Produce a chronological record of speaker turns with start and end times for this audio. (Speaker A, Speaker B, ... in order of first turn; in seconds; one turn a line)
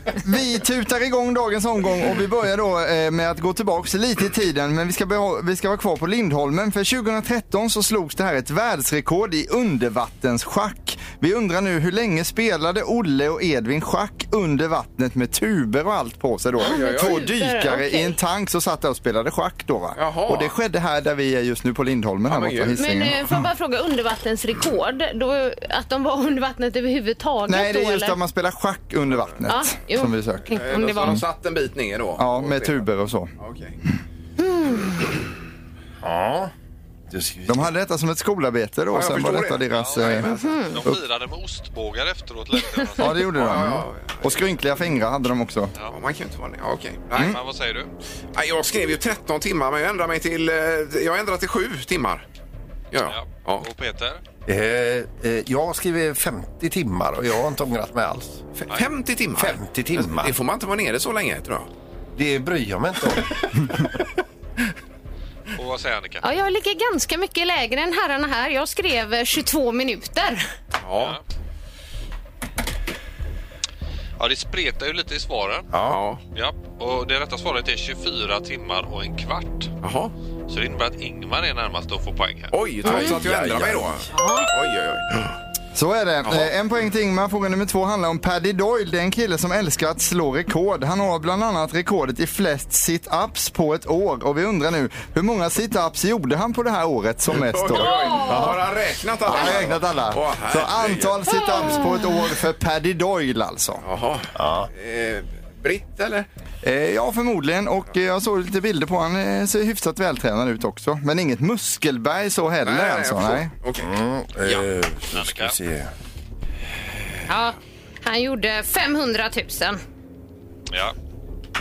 Speaker A: 0.2-23.4
Speaker B: 16.6-18.2
Speaker C: 16.6-17.2
Speaker C: 20.0-20.5
Speaker C: 22.3-22.8
Speaker B: 22.8-28.2
Speaker A: 27.5-31.2
Speaker B: 29.5-31.2
Speaker C: 30.5-32.8
Speaker A: 32.2-33.3
Speaker C: 33.4-33.8
Speaker B: 34.4-34.9
Speaker D: 36.0-36.5
Speaker D: 37.1-37.7
Speaker A: 37.5-40.3
Speaker C: 38.9-40.8
Speaker E: 39.7-43.6
Speaker B: 40.4-40.8
Speaker A: 43.0-45.7
Speaker C: 43.3-44.5
Speaker C: 45.9-47.4
Speaker E: 47.2-47.9
Speaker C: 48.3-52.2
Speaker C: 52.9-53.7
Speaker E: 53.0-54.2
Speaker D: 54.5-58.7
Speaker C: 58.7-61.7
Speaker D: 59.3-60.4
Speaker D: 62.1-63.7
Speaker E: 65.5-66.2
Speaker B: 66.2-70.5
Speaker C: 70.8-71.2
Speaker E: 74.2-75.7
Speaker D: 75.7-76.0
Speaker C: 75.8-76.2
Speaker E: 76.3-79.7
Speaker C: 79.8-80.1
Speaker E: 80.5-82.6
Speaker C: 82.5-85.3
Speaker D: 82.8-84.0
Speaker B: 82.8-83.1
Speaker B: 84.1-84.5
Speaker A: 85.7-98.6
Speaker C: 97.3-101.5
Speaker B: 97.7-98.6
Speaker A: 99.2-103.8
Speaker B: 101.3-101.8
Speaker C: 103.8-106.3
Speaker D: 104.3-104.7
Speaker A: 106.6-113.5
Speaker C: 112.6-113.9
Speaker D: 113.8-115.9
Speaker E: 115.1-115.5
Speaker B: 117.3-119.8
Speaker E: 120.7-120.9